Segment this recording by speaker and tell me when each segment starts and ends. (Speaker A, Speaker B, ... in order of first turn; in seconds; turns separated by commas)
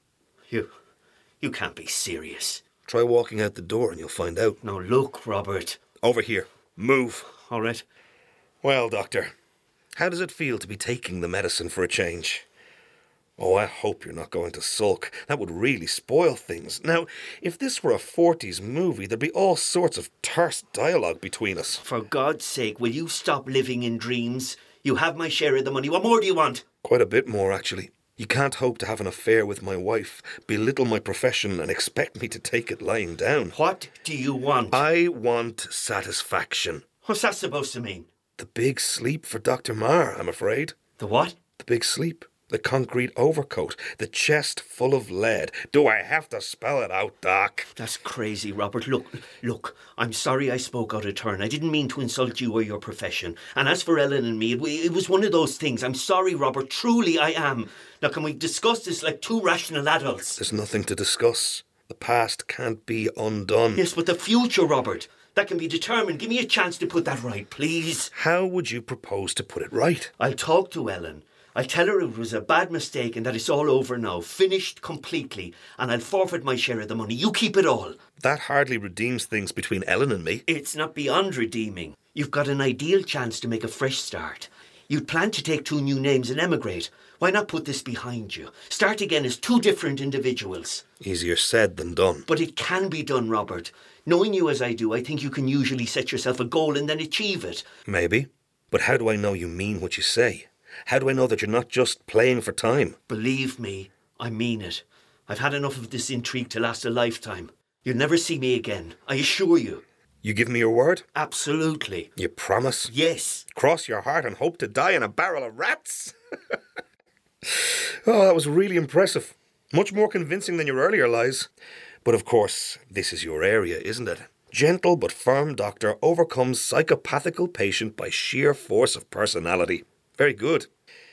Speaker A: 1.4-2.6, Speaker B: 2.9-4.6, Speaker A: 4.6-5.8, Speaker B: 6.0-7.3, Speaker A: 7.3-7.8, Speaker B: 8.6-9.3, Speaker B: 9.9-12.4, Speaker B: 13.4-21.8, Speaker A: 21.8-26.6, Speaker B: 26.8-33.5, Speaker A: 33.5-34.8, Speaker B: 34.7-36.9, Speaker A: 37.0-38.1, Speaker B: 38.4-40.8, Speaker A: 41.0-41.4, Speaker B: 41.6-47.7, Speaker A: 47.8-60.4, Speaker B: 60.4-63.9, Speaker A: 63.7-68.1, Speaker B: 68.1-70.1, Speaker A: 70.2-78.0, Speaker B: 78.2-80.4, Speaker A: 80.5-90.8, Speaker B: 91.0-92.3, Speaker A: 92.3-97.7, Speaker B: 97.8-103.0, Speaker A: 103.1-109.8, Speaker B: 110.2-111.0, Speaker A: 111.1-112.1, Speaker B: 112.2-112.9, Speaker A: 112.9-113.5, Speaker B: 113.5-116.1, Speaker B: 117.5-121.5, Speaker B: 122.0-130.7